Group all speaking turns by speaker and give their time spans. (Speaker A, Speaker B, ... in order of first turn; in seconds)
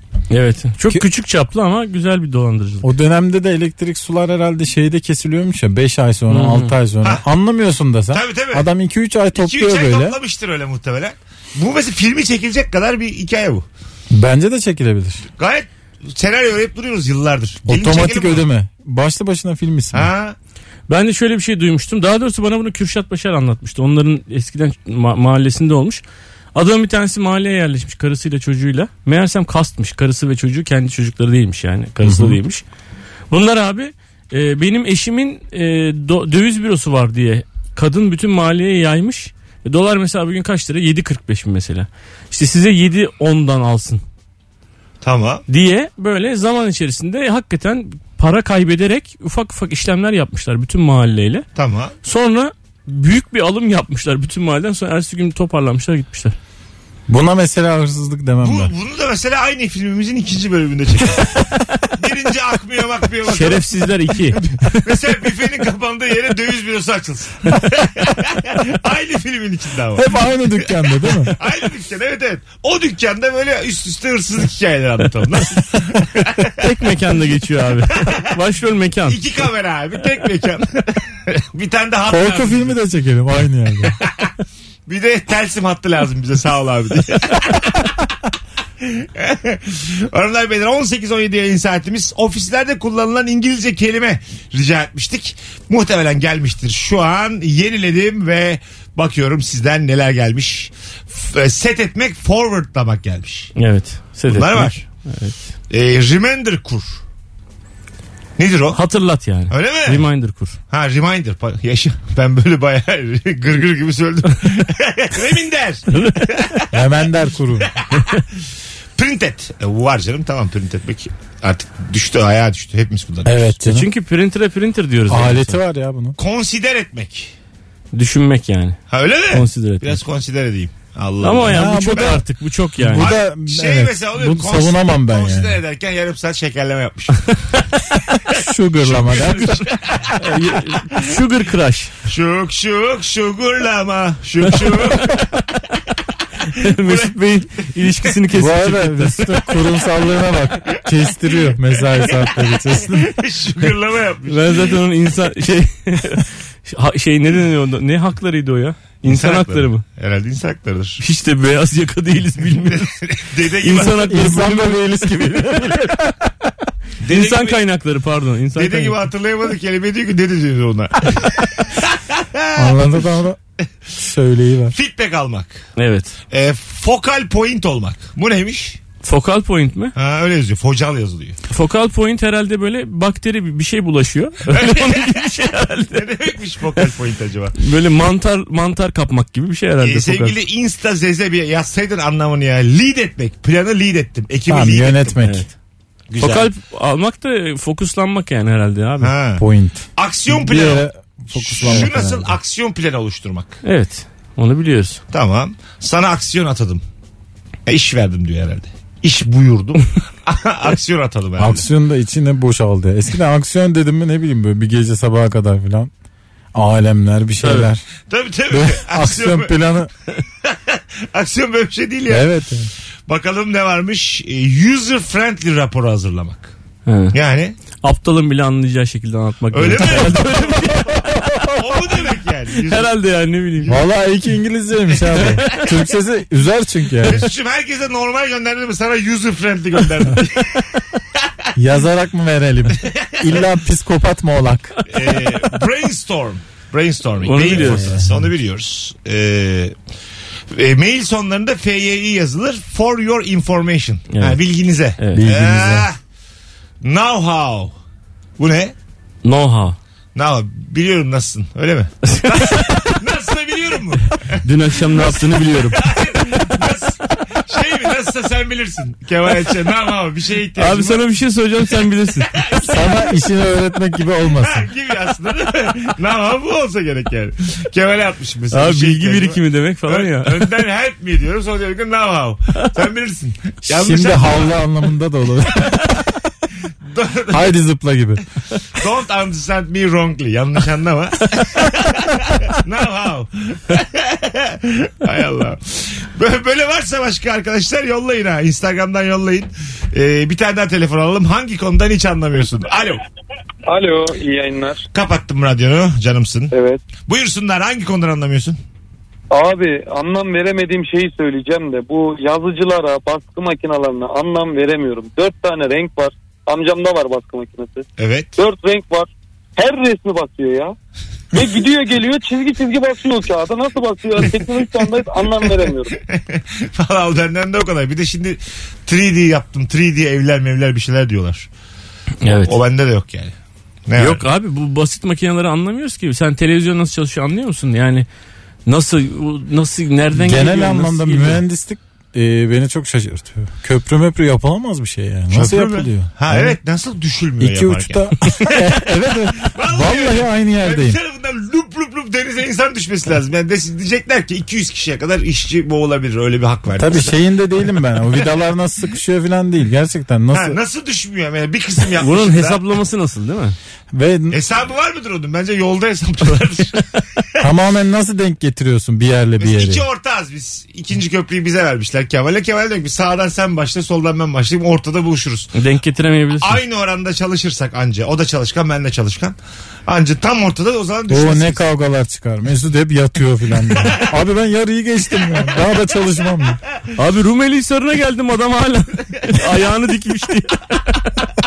Speaker A: 0.3-2.9, 6.3-6.7, 20.9-26.0, 26.6-32.6, 33.3-44.0, 45.5-51.5, 52.0-56.4, 63.2-65.0, 76.6-79.2, 103.6-105.4, 108.7-110.6, 115.9-116.5, 123.6-125.6, 127.9-130.0, 131.2-133.2, 140.2-141.9, 146.5-149.5, 154.3-159.8, 161.0-162.9, 163.6-165.9, 167.1-169.0, 175.8-176.2, 179.0-179.9, 181.5-186.2, 187.6-190.4, 196.2-199.1, 203.6-205.0, 217.4-217.7, 226.9-227.2, 227.8-231.3, 232.5-233.8, 247.2-248.0, 254.1-254.4, 255.0-255.3, 259.2-259.8, 262.1-262.8, 264.4-266.5, 270.6-272.5, 278.5-280.6, 332.2-332.6, 334.0-338.1, 338.7-341.4, 362.0-363.6, 375.6-376.6, 387.0-391.0
Speaker B: 2.8-10.2, 14.1-15.2, 17.6-20.1, 32.0-32.4, 57.1-58.7, 70.0-71.4, 82.1-84.0, 116.7-117.7, 123.2-123.9, 125.1-126.2, 131.5-132.2, 132.8-135.6, 138.3-139.7, 148.3-153.2, 164.0-166.3, 172.6-173.4, 174.0-174.8, 194.5-195.4, 199.4-202.4, 211.4-215.9, 216.5-217.8, 218.5-219.9, 222.1-222.7, 233.7-237.3, 241.6-244.8, 247.5-248.3, 255.1-255.9, 272.6-274.7, 283.7-286.1, 287.3-288.2, 340.1-346.6, 347.4-351.0, 356.8-360.6, 363.9-364.4, 367.4-369.9, 381.1-386.6
Speaker C: 8.1-8.7, 9.3-13.7, 15.4-18.5, 19.9-20.4, 45.0-45.4, 51.6-51.9, 58.4-63.6, 64.3-76.7, 79.1-82.8, 84.0-84.3, 84.9-88.0, 88.8-103.5, 104.3-104.8, 105.7-107.0, 108.4-108.8, 109.5-110.0, 110.7-116.8, 117.6-117.9, 119.0-123.5, 126.2-127.3, 128.9-132.2, 132.9-137.6, 138.8-140.6, 142.1-145.4, 146.8-147.1, 152.0-154.8, 159.1-161.0, 162.7-164.2, 167.0-167.6, 168.6-172.8, 174.7-175.6, 176.3-178.8, 180.0-181.4, 184.5-185.4, 185.9-187.6, 189.8-195.2, 196.1-196.5, 199.0-203.6, 205.1-206.8, 207.7-211.7, 218.1-219.5, 220.4-222.3, 223.1-226.5, 227.1-227.6, 229.5-232.9, 237.0-240.7, 242.8-243.3, 244.9-249.8, 250.5-256.0, 256.8-257.7, 258.4-258.8, 260.1-271.1, 272.3-273.1, 274.3-284.6, 286.9-287.5, 288.8-303.0, 304.9-306.5, 307.1-308.6, 318.0-318.3, 325.9-331.5, 332.4-333.3, 333.9-334.2, 345.3-357.2, 360.3-362.6, 364.3-367.2, 369.4-375.5, 376.4-381.6, 383.8-384.1
Speaker D: 303.7-304.8, 306.5-306.8, 309.3-317.8, 318.4-320.7, 321.3-325.9